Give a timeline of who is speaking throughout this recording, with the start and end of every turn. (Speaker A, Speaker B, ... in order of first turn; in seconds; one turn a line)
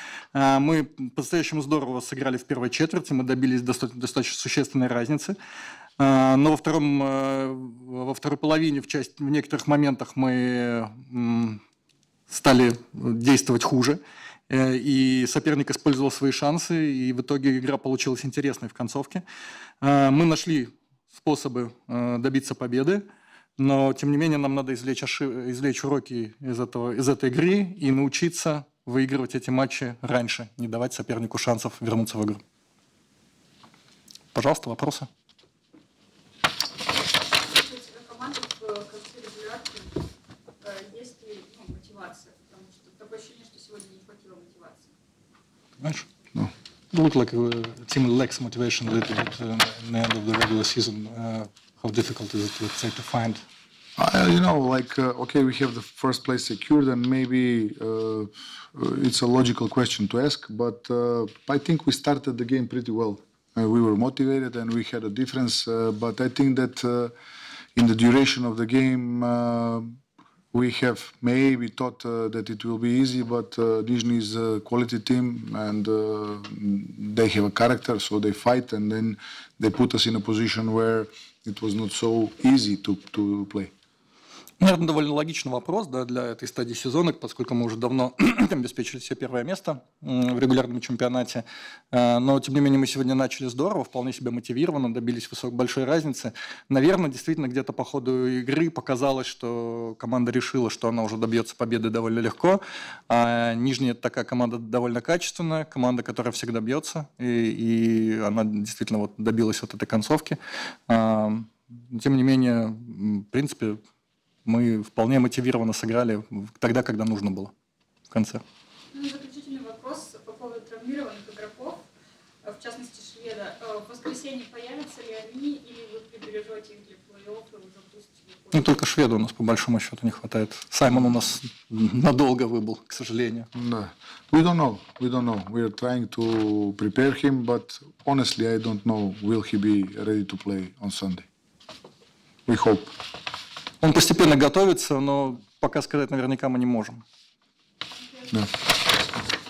Speaker A: 0.3-5.4
Speaker A: 6.0-11.6
Speaker A: 12.3-19.2
Speaker A: 19.8-23.0
Speaker A: 23.6-32.4
Speaker A: 34.3-35.1
Speaker B: 37.4-40.0
Speaker B: 40.6-44.9
Speaker A: 45.8-46.1
Speaker A: 46.9-53.4
Speaker C: 54.0-67.1
Speaker C: 67.8-70.0
Speaker C: 70.5-83.7
Speaker A: 84.6-113.8
Speaker A: 114.5-117.5
Speaker A: 118.1-118.4
Speaker B: 118.9-121.8
Speaker B: 122.4-128.7
Speaker A: 128.5-133.5
Speaker C: 133.6-141.3
Speaker C: 142.5-142.9
Speaker A: 143.8-147.0